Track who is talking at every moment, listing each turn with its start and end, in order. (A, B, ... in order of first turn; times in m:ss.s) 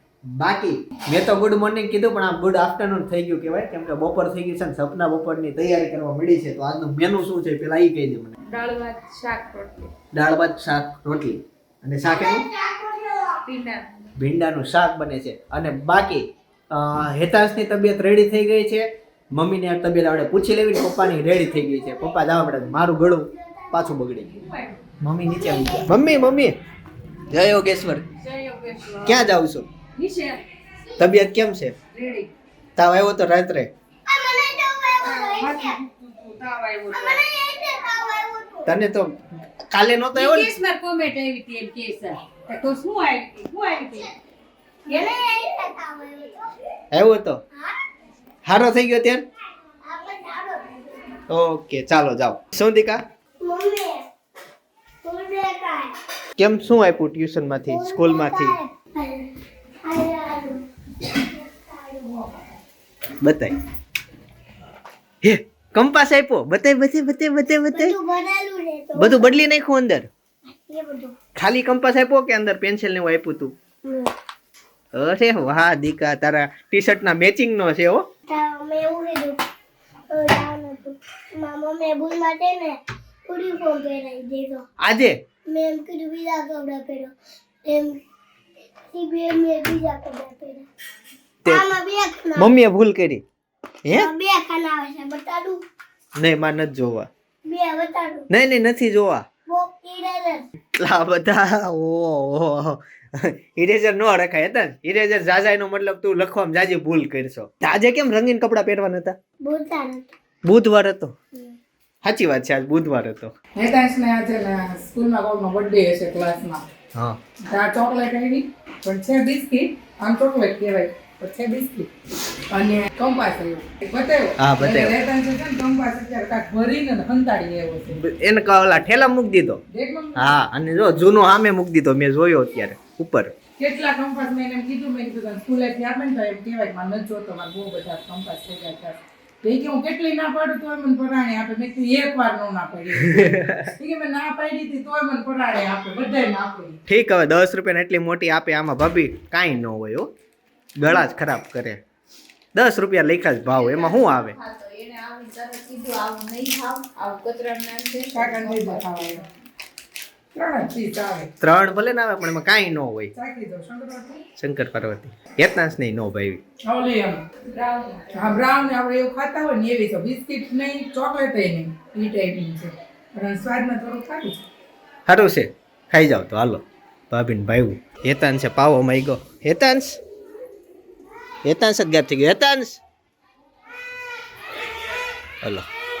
0:00.4-0:08.3 A
0:08.5-0:09.9 B
0:10.1-0:12.4 A
0:12.1-0:13.4 C
0:13.5-0:13.8 B
0:14.2-0:24.4 A
0:21.2-0:23.8 C
0:24.3-0:24.8 D
0:25.0-0:26.5 A
0:25.2-0:26.1 C
0:27.3-0:28.0 A
0:28.2-0:29.3 D
0:29.0-0:29.7 A
0:30.0-0:30.4 D
0:31.0-0:31.8 A
0:31.9-0:32.3 D
0:32.8-0:33.7 A
0:34.1-0:35.8 C
0:35.1-0:37.2 D
0:36.9-0:38.8 C
0:38.6-0:39.2 A
0:39.7-0:40.6 A
0:40.1-0:44.1 D
0:44.9-0:46.5 C
0:46.9-0:47.4 A
0:48.4-0:49.2 A
0:49.8-0:50.7 C
0:51.3-0:53.0 A
0:53.4-0:54.0 C
0:55.0-0:55.9 C
0:56.4-0:58.6 A
0:57.7-0:59.3 C
0:59.8-1:02.1 C
1:03.2-1:03.5 A
1:05.2-1:08.0 A
1:07.7-1:09.4 C
1:09.0-1:10.1 A
1:10.5-1:11.1 C
1:11.4-1:13.5 A
1:13.8-1:14.1 C
1:14.9-1:18.0 A
1:18.3-1:19.4 C
1:20.1-1:24.6 C
1:24.8-1:25.1 A
1:25.5-1:27.1 C
1:27.6-1:28.0 C
1:28.9-1:30.6 C
1:31.4-1:31.7 A
1:31.4-1:32.5 C
1:32.4-1:33.2 A
1:33.8-1:34.1 A
1:33.9-1:35.6 C
1:36.2-1:37.1 A
1:37.4-1:38.3 C
1:38.3-1:39.2 A
1:39.5-1:40.5 C
1:40.8-1:49.1 A
1:49.4-1:50.1 C
1:50.4-1:51.1 A
1:52.0-1:53.3 A
1:53.6-1:56.6 B
1:57.5-2:01.9 B
2:02.5-2:08.0 B
2:04.4-2:05.0 A
2:08.0-2:09.6 A
2:09.7-2:10.4 B
2:10.2-2:13.3 A
2:13.6-2:26.8 B
2:23.0-2:23.7 A
2:26.9-2:30.1 A
2:30.8-2:31.8 A
2:32.5-2:34.4 A
2:33.5-2:39.3 D
2:38.1-2:39.2 B
2:40.3-2:41.3 B
2:41.4-2:43.1 A
2:43.1-2:44.2 B
2:44.4-2:46.4 A
2:46.6-2:47.4 B
2:47.5-2:48.5 D
2:48.1-2:54.5 B
2:55.1-3:00.0 A
3:01.4-3:02.8 A